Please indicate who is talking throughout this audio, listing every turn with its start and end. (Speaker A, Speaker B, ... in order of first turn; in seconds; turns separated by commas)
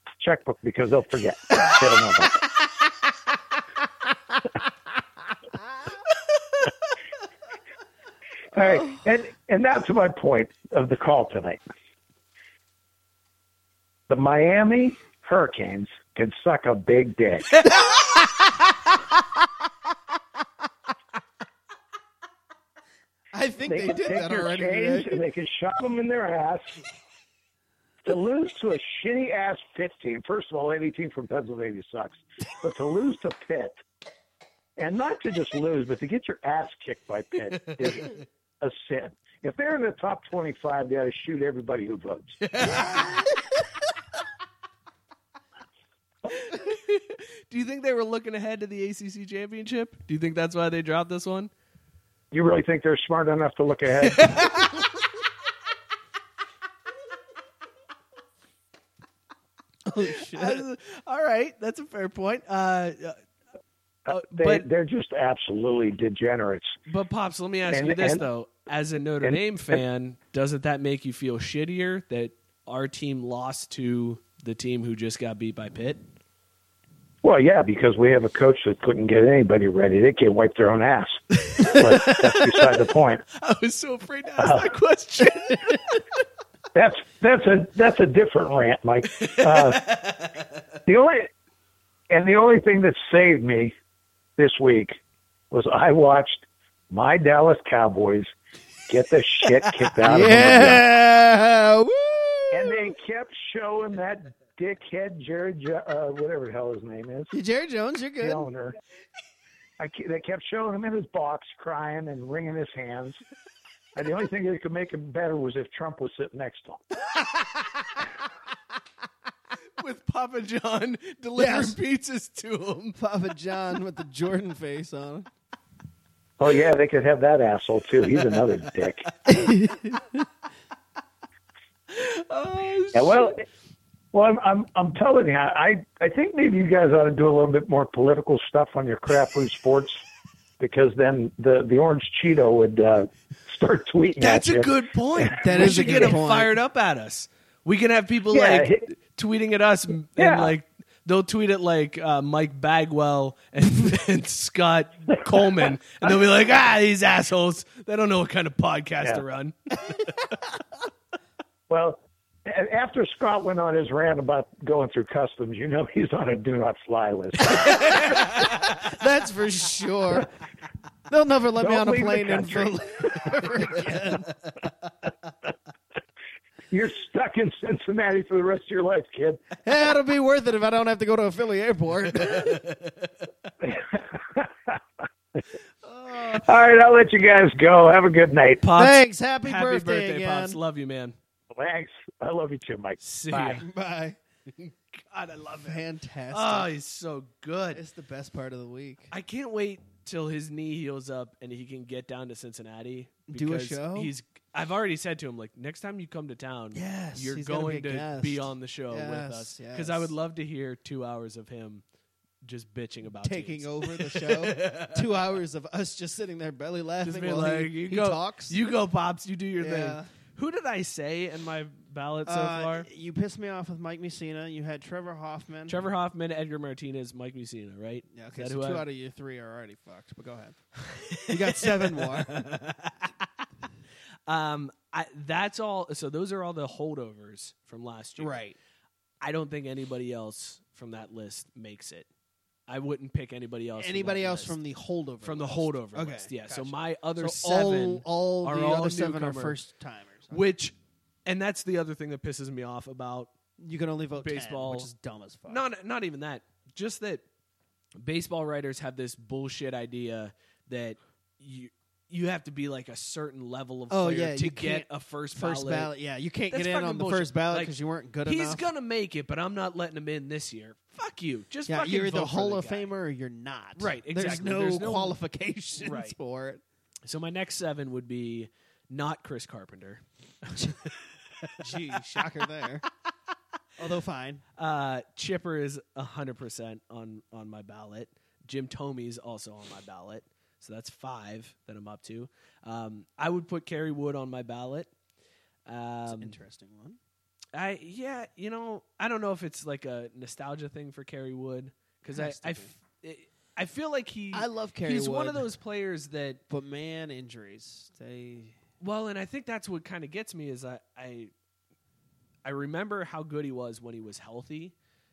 Speaker A: 0.2-2.4, Speaker A: 8.5-11.6, Speaker A: 14.1-17.6, Speaker B: 17.5-17.9, Speaker C: 23.3-25.2, Speaker A: 23.6-26.7, Speaker A: 28.0-33.8, Speaker A: 34.8-42.9, Speaker B: 37.5-38.2, Speaker B: 42.5-43.2, Speaker B: 46.4-51.5, Speaker A: 52.3-54.7, Speaker B: 54.1-54.8, Speaker C: 59.9-60.6, Speaker B: 60.2-63.2, Speaker B: 64.1-64.7, Speaker A: 64.1-66.8, Speaker B: 66.9-76.0, Speaker A: 67.7-68.2, Speaker A: 69.2-69.8, Speaker A: 77.2-83.2, Speaker B: 81.4-82.7, Speaker B: 83.4-86.0, Speaker A: 84.4-84.7, Speaker A: 86.7-89.8, Speaker B: 89.1-90.4, Speaker A: 90.9-91.3, Speaker A: 92.1-93.7, Speaker A: 94.4-95.0, Speaker A: 95.5-98.3, Speaker A: 98.9-100.9, Speaker C: 100.0-102.9, Speaker B: 100.0-100.6, Speaker A: 102.5-107.3, Speaker C: 107.3-108.5, Speaker A: 108.2-108.7, Speaker A: 109.8-113.2, Speaker A: 114.0-116.8, Speaker C: 117.1-117.9, Speaker B: 119.8-123.0, Speaker C: 121.3-121.8, Speaker C: 123.0-125.3, Speaker A: 126.4-129.1, Speaker C: 129.3-130.0, Speaker B: 131.9-133.4, Speaker A: 132.9-133.4, Speaker A: 134.1-140.0, Speaker A: 140.6-146.2, Speaker B: 144.2-160.0, Speaker C: 145.4-146.5, Speaker A: 148.3-148.8, Speaker A: 150.2-150.5, Speaker A: 161.7-168.4, Speaker B: 167.4-168.8, Speaker C: 167.7-170.3, Speaker C: 171.1-174.3, Speaker A: 171.6-174.0, Speaker A: 176.7-179.4, Speaker C: 179.6-182.6, Speaker B: 182.4-183.1, Speaker A: 183.6-184.7, Speaker A: 186.2-188.6, Speaker B: 188.6-191.2, Speaker C: 188.7-190.6, Speaker A: 191.5-193.6, Speaker B: 193.0-193.6, Speaker C: 193.5-194.2, Speaker B: 194.6-195.8, Speaker C: 195.6-196.7, Speaker B: 196.3-197.8, Speaker C: 197.7-199.1, Speaker B: 199.1-211.8, Speaker C: 203.3-204.1, Speaker C: 206.7-210.1, Speaker B: 212.4-215.0, Speaker C: 213.2-218.6, Speaker B: 217.0-222.9, Speaker C: 219.6-220.1, Speaker C: 222.2-225.9, Speaker B: 225.7-228.8, Speaker C: 228.1-230.6, Speaker B: 230.9-233.1, Speaker C: 231.2-232.4, Speaker B: 234.3-238.4, Speaker C: 238.2-238.6, Speaker B: 239.2-242.1, Speaker B: 242.7-244.6, Speaker C: 243.8-250.4, Speaker B: 245.2-249.6, Speaker B: 250.3-250.7, Speaker B: 251.2-253.3, Speaker C: 253.6-255.6, Speaker B: 254.2-254.9, Speaker B: 255.5-257.2, Speaker B: 258.0-265.9, Speaker C: 263.9-268.6, Speaker B: 266.5-272.9, Speaker C: 271.7-276.6, Speaker B: 273.8-275.2, Speaker B: 275.8-276.1, Speaker B: 277.1-282.0, Speaker C: 281.6-282.8, Speaker C: 283.8-284.4, Speaker B: 284.6-294.9, Speaker B: 295.6-296.4, Speaker C: 296.1-297.0, Speaker B: 297.5-306.4, Speaker C: 302.1-302.8, Speaker C: 304.3-305.5, Speaker C: 306.5-308.6, Speaker B: 308.8-311.3, Speaker B: 312.4-314.7